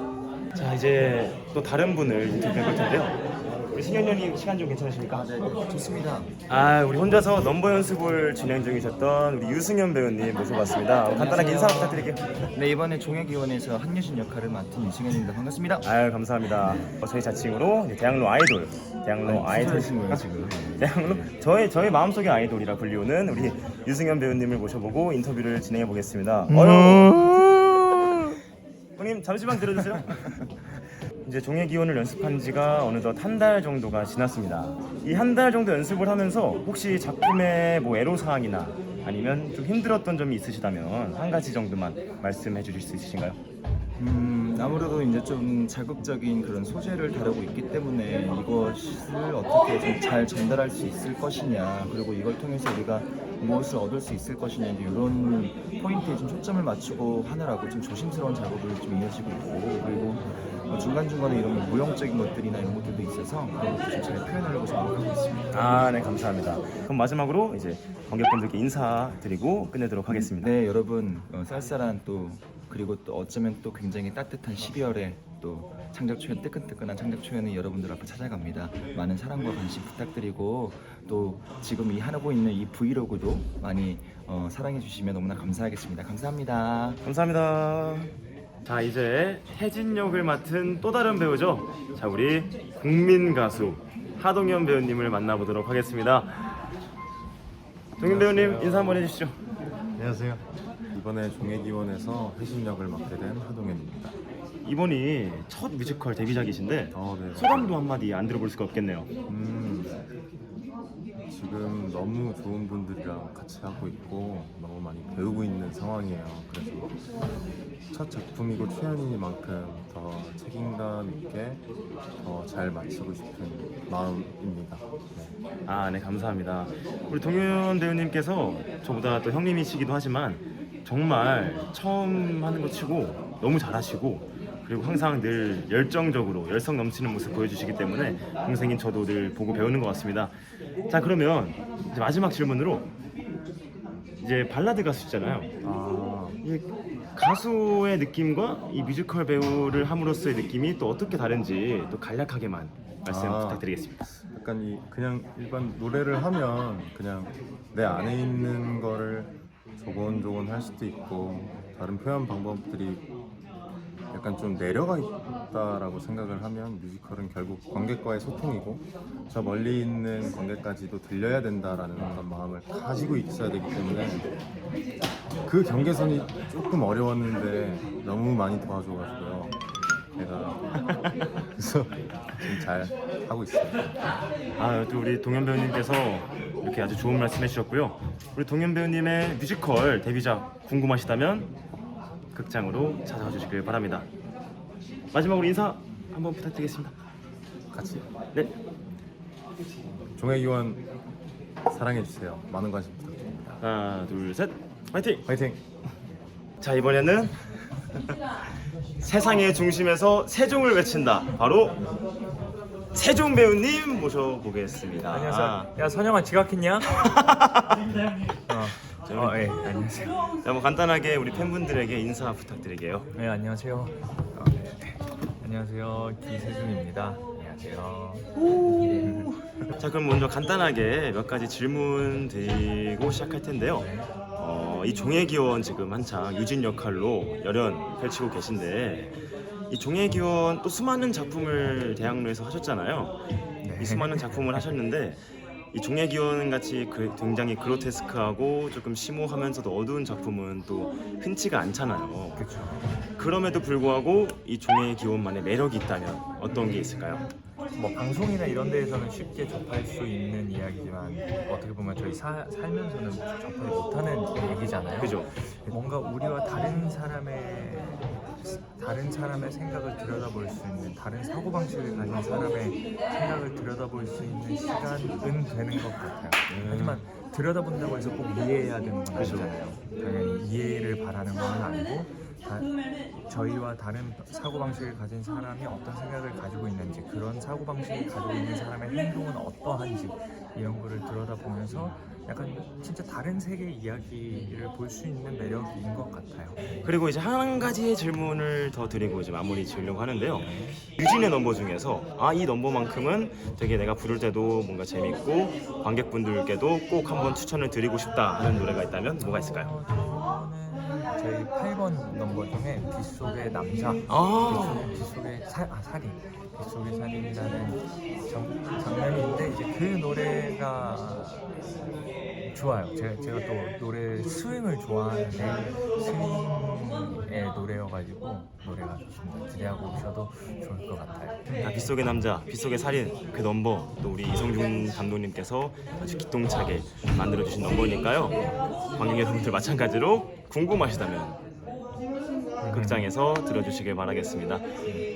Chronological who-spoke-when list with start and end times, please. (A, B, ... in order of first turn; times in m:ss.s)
0:00.6-0:03.2 A
0:03.7-0:05.2 A
0:05.1-0:06.3 B
0:06.5-0:12.2 A
0:11.2-0:15.9 B
0:15.8-0:28.4 A
0:19.2-0:21.3 B
0:29.0-0:30.4 A
0:31.2-0:43.4 A
0:44.0-1:05.6 B
1:05.5-1:10.5 A
1:10.1-1:27.0 B
1:27.0-1:28.1 A
1:28.6-1:36.5 A
1:38.0-1:39.4 A
1:38.0-1:39.1 C
1:40.0-1:44.2 C
1:44.6-1:49.1 A
1:46.9-1:47.8 C
1:49.3-1:50.0 C
1:51.3-1:56.9 C
1:57.9-2:01.6 C
2:02.2-2:05.3 C
2:05.7-2:20.3 A
2:20.9-2:22.9 A
2:24.2-2:25.5 A
2:25.6-2:26.4 C
2:26.4-2:34.0 A
2:33.1-2:43.0 C
2:44.1-2:54.3 C
2:55.4-2:59.6 C
3:00.2-3:00.6 C
3:01.6-3:03.9 C
3:04.6-3:11.5 A
3:12.3-3:14.1 A
3:15.1-3:16.9 A
3:17.7-3:18.1 C
3:20.2-3:20.8 C
3:21.6-3:23.6 C
3:23.6-3:25.3 A
3:25.3-3:25.6 C
3:26.6-3:27.4 A
3:29.0-3:31.8 A
3:32.9-3:35.7 A
3:35.1-3:37.0 D
3:36.9-3:37.8 A
3:38.5-3:40.2 D
3:39.1-3:39.5 A
3:40.4-3:43.1 A
3:43.1-3:49.3 D
3:48.6-3:53.9 A
3:53.8-3:54.1 D
3:54.4-3:59.2 A
3:59.7-4:03.2 A
4:03.6-4:04.7 D
4:03.8-4:05.2 A
4:05.7-4:12.4 A
4:12.4-4:12.9 D
4:13.2-4:17.3 A
4:17.8-4:42.7 D
4:25.0-4:25.3 A
4:36.5-4:37.0 A
4:39.1-4:39.5 A
4:43.3-4:56.9 D
4:56.8-5:09.7 A
5:00.3-5:00.8 D
5:09.1-5:21.4 D
5:14.1-5:15.0 A
5:22.5-5:31.5 D
5:31.6-5:38.4 A
5:39.0-5:41.4 A
5:42.6-5:43.1 D
5:42.7-5:44.6 A